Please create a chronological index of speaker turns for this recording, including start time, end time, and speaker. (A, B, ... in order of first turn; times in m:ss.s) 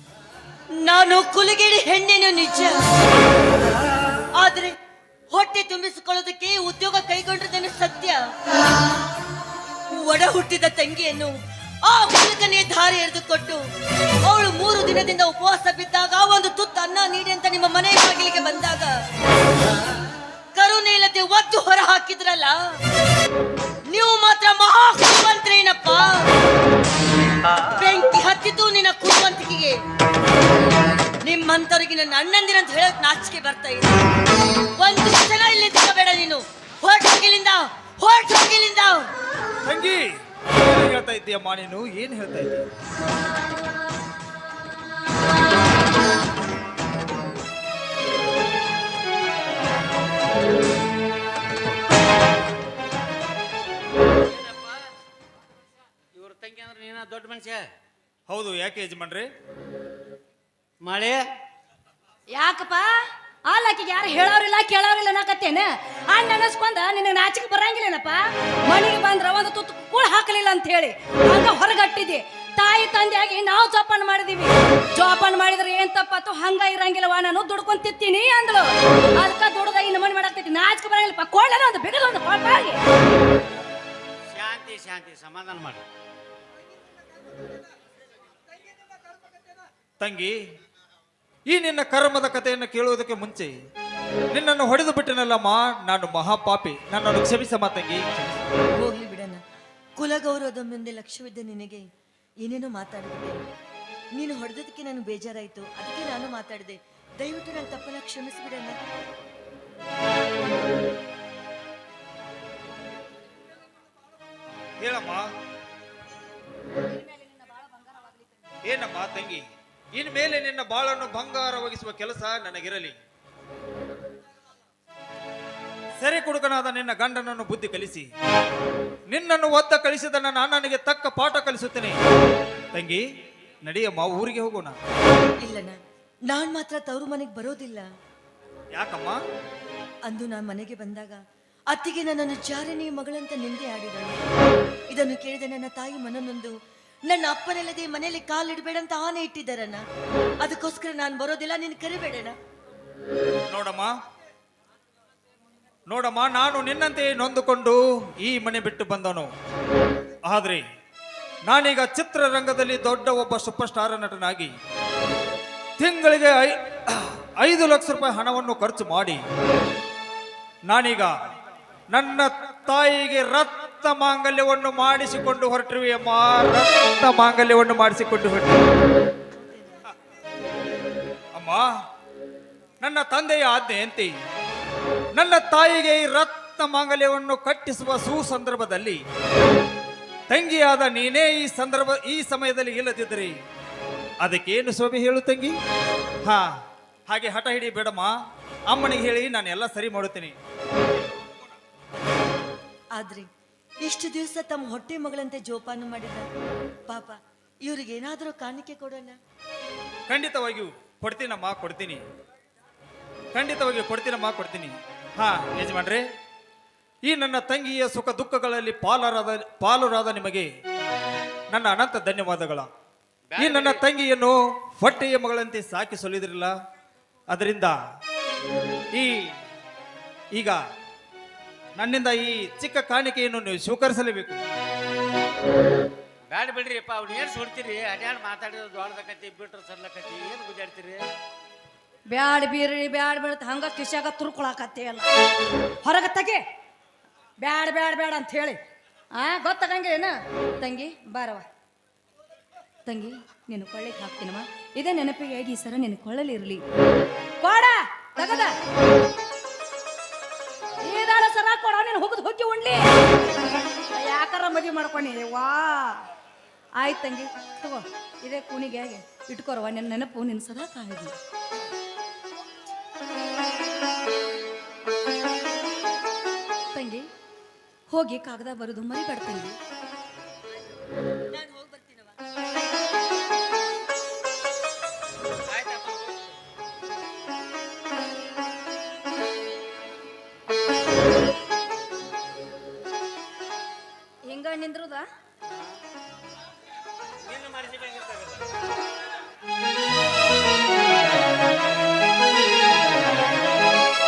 0:00.8-0:02.7 A
0:04.4-0:04.7 A
0:05.3-0:08.2 A
0:09.9-0:11.3 A
0:11.8-0:13.6 A
0:14.2-0:18.9 A
0:20.6-0:22.5 A
0:23.9-0:26.2 A
0:27.7-0:29.8 A
0:31.2-0:33.9 A
0:34.8-0:39.1 A
0:39.6-0:42.6 B
0:54.2-0:54.9 C
0:56.1-0:57.7 C
0:58.3-0:59.3 B
1:00.8-1:01.2 C
1:02.3-1:02.9 D
1:03.5-1:22.8 D
1:24.3-1:25.8 C
1:30.0-1:30.4 B
1:31.5-1:33.5 B
1:34.3-1:38.4 B
1:38.8-1:39.4 A
1:40.0-1:41.8 A
1:42.4-1:43.4 A
1:44.2-1:48.8 A
1:54.8-1:55.3 B
1:56.8-1:58.5 D
1:58.6-1:59.4 B
2:00.0-2:03.0 B
2:06.0-2:08.1 B
2:09.1-2:12.0 B
2:12.7-2:13.0 B
2:13.6-2:14.8 B
2:15.4-2:15.8 A
2:16.3-2:17.8 A
2:18.8-2:19.2 B
2:20.1-2:21.2 A
2:21.7-2:24.2 A
2:24.9-2:26.5 A
2:27.1-2:29.8 A
2:30.4-2:32.3 A
2:33.5-2:33.9 B
2:35.9-2:39.3 B
2:40.2-2:40.6 B
2:41.4-2:44.5 B
2:45.8-2:49.2 B
2:50.7-2:51.1 B
2:51.9-2:58.6 B
2:59.3-2:59.8 A
3:01.3-3:01.6 B
3:02.8-3:04.1 B
3:05.2-3:09.0 B
3:10.3-3:13.3 B
3:14.2-3:15.5 B
3:16.2-3:16.5 B
3:17.1-3:18.1 B
3:18.7-3:20.3 B
3:23.0-3:23.3 A
3:23.8-3:26.3 A
3:26.9-3:29.2 A
3:30.1-3:32.0 B
3:33.3-3:36.0 B
3:37.0-3:40.5 B
3:41.5-3:42.7 B
3:43.3-3:43.8 C
3:43.4-3:46.5 B
3:47.3-3:47.8 B
3:48.9-3:49.3 B
3:51.8-3:54.4 B
3:56.3-4:01.0 C
4:02.1-4:05.1 D
4:05.8-4:06.4 D
4:07.4-4:08.6 D
4:09.1-4:11.4 D
4:12.8-4:16.6 D
4:17.4-4:18.5 D
4:20.8-4:22.9 D
4:23.9-4:26.0 D
4:26.8-4:31.2 D
4:36.7-4:37.0 D
4:37.9-4:39.6 D
4:41.3-4:42.2 A
4:45.4-4:46.4 C
4:54.2-4:55.0 D
4:55.4-4:55.8 C
4:57.2-4:58.4 C